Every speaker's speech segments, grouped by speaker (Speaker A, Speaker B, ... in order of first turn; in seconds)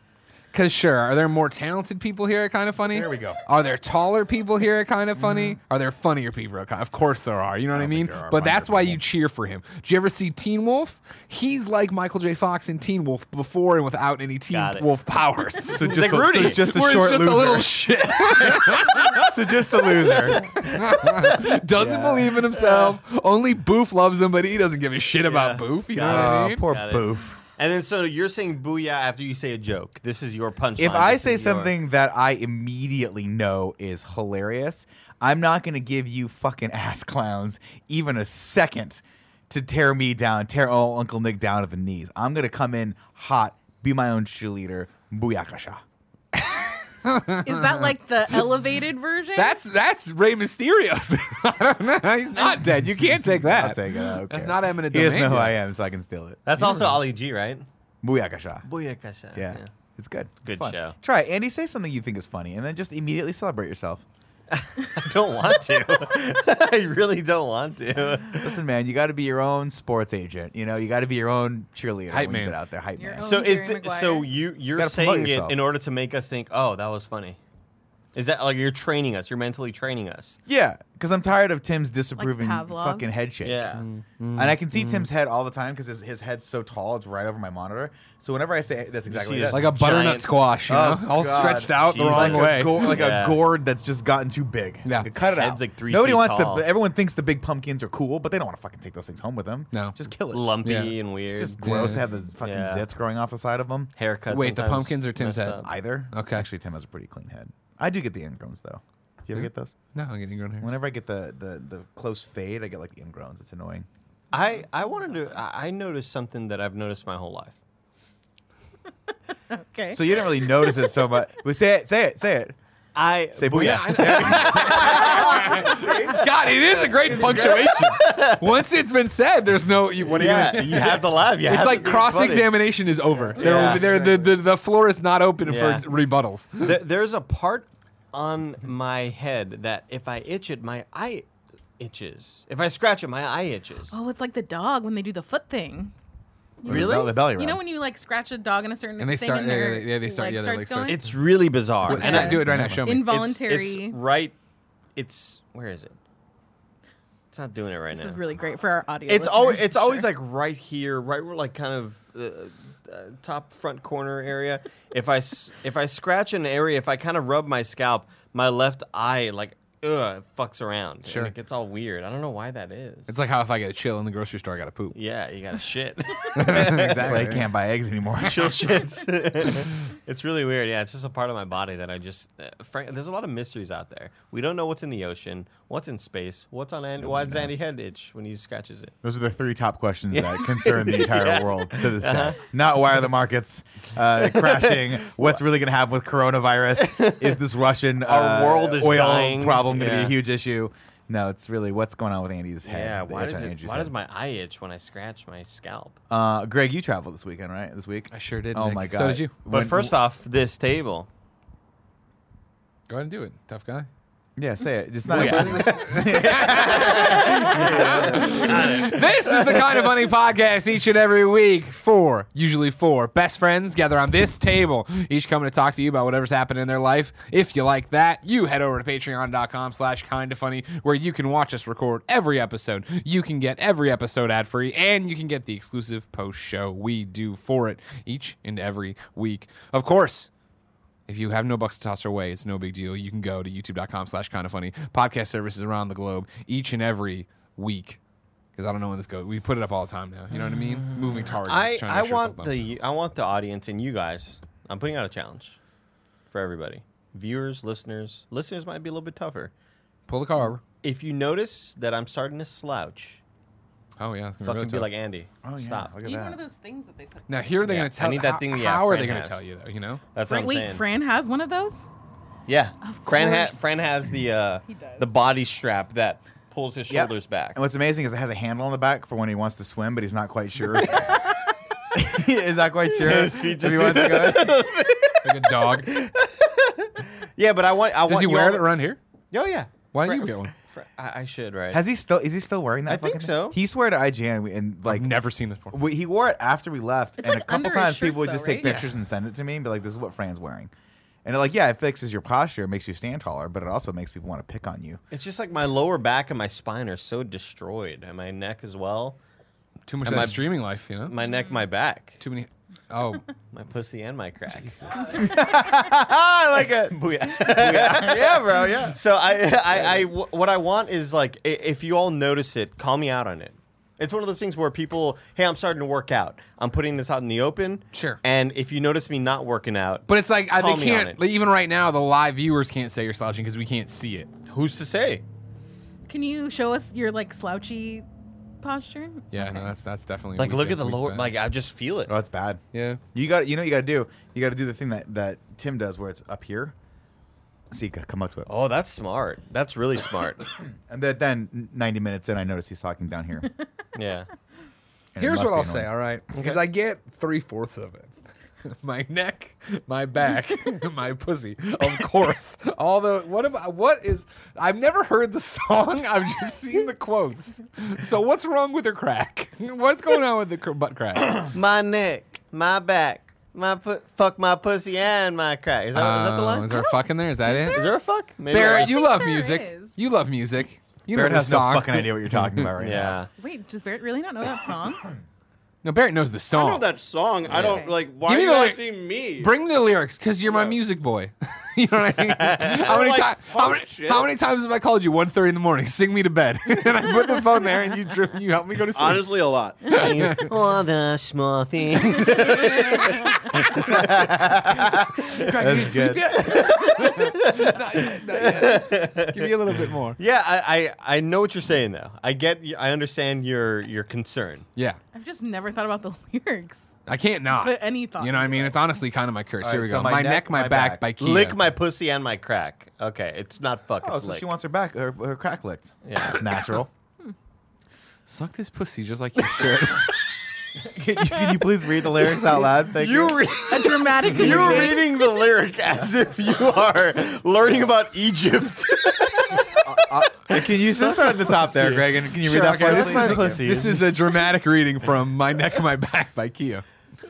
Speaker A: 0.5-19.3, 20.6-26.7, 47.0-47.9, 49.4-55.6, 72.1-72.6, 83.8-85.1, 89.5-93.0, 94.8-95.1, 100.6-101.0, 101.6-102.1, 104.3-106.5, 109.4-110.7, 123.6-136.8, 149.0-151.0, 151.9-153.2, 171.1-171.3, 173.1-175.0, 176.3-177.5, 208.1-209.3, 212.9-213.9, 215.1-240.3, 241.1-248.0, 248.6-252.6, 260.1-260.6, 264.0-264.9, 267.3-270.0, 283.7-284.4, 285.2-285.9, 288.0-289.0, 289.9-290.5, 294.9-295.8, 298.6-298.9, 309.9-311.1, 312.2-313.2, 314.6-315.2, 327.9-328.2, 330.1-334.3, 339.3-341.3, 342.7-343.0, 355.2-358.1, 358.6-371.5, 375.9-377.9, 378.5-382.7, 385.8-386.9, 387.4-400.5, 402.6-404.0, 405.2-410.2, 417.1-421.6, 428.3-430.1, 442.4-446.8
Speaker B: 2.9-3.4, 5.2-5.6, 7.7-9.0, 15.7-20.5, 21.8-22.4, 26.0-27.4, 30.8-45.8, 53.1-56.9, 58.0-58.7, 59.3-64.0, 68.4-73.3, 74.8-75.6, 80.5-83.8, 84.4-90.0, 90.7-100.5, 101.4-103.9, 105.7-109.8, 110.6-113.9, 119.9-122.6, 123.4-126.1, 126.9-128.0, 133.4-133.9, 146.7-147.6, 151.9-152.8, 176.5-178.9, 187.0-187.6, 189.0-203.9, 206.1-209.9, 214.4-218.3, 265.4-266.4, 276.9-281.2, 281.9-284.5, 291.7-295.1, 295.7-300.7, 301.2-305.0, 315.1-319.0, 342.1-342.6, 343.1-346.8, 347.7-348.5, 350.9-353.5, 355.1-355.9, 381.1-383.2, 403.9-406.4, 419.6-421.1, 424.0-426.9, 430.9-433.4, 439.8-443.6
Speaker C: 14.5-14.9, 15.6-16.7, 20.2-21.1, 22.5-23.0, 25.2-31.8, 56.5-57.7, 58.7-59.7, 60.4-61.0, 64.5-68.6, 73.2-77.4, 78.1-80.4, 83.4-83.8, 89.1-90.3, 91.3-93.4, 95.2-96.7, 100.3-102.8, 104.0-105.7, 114.3-117.6, 123.0-126.3, 127.0-128.4, 130.1-132.5, 133.4-134.2, 135.4-135.9, 136.6-141.3, 141.8-144.0, 146.6-147.2, 150.9-154.3, 155.0-155.9, 157.3-158.2, 159.1-173.1, 174.9-177.3, 178.2-188.9, 190.1-192.4, 194.2-194.9, 196.8-197.4, 198.0-200.2, 202.7-206.0, 209.5-211.1, 215.1-219.9, 250.3-255.6, 256.3-259.5, 260.8-263.2, 264.4-265.9, 267.6-269.4, 270.1-270.8, 272.5-277.6, 282.9-288.7, 289.3-291.8, 292.9-293.6, 305.1-309.2, 310.0-312.2, 313.5-315.2, 316.8-331.2, 334.5-335.2, 340.4-342.1, 348.5-350.5, 353.9-354.3, 356.3-356.6, 371.4-376.9, 377.6-379.1, 382.8-383.3, 392.3-392.9, 399.9-404.3, 406.4-409.6, 410.2-414.7, 421.2-424.5, 426.1-426.4, 432.9-440.0, 440.5-444.4
Speaker D: 47.4-49.6, 73.0-74.3, 82.2-83.1, 119.5-120.9, 143.9-145.9, 146.6-151.1, 151.9-154.0, 157.9-160.1, 266.0-267.6, 270.2-271.9, 272.8-273.9, 274.7-275.2, 297.2-298.7, 336.1-338.1, 338.6-339.3, 377.4-377.9, 378.5-380.0, 383.4-385.1, 387.5-388.0, 415.1-416.9, 417.5-418.8, 433.7-435.1
Speaker E: 386.5-389.6, 390.4-390.8, 392.8-394.3, 398.9-399.9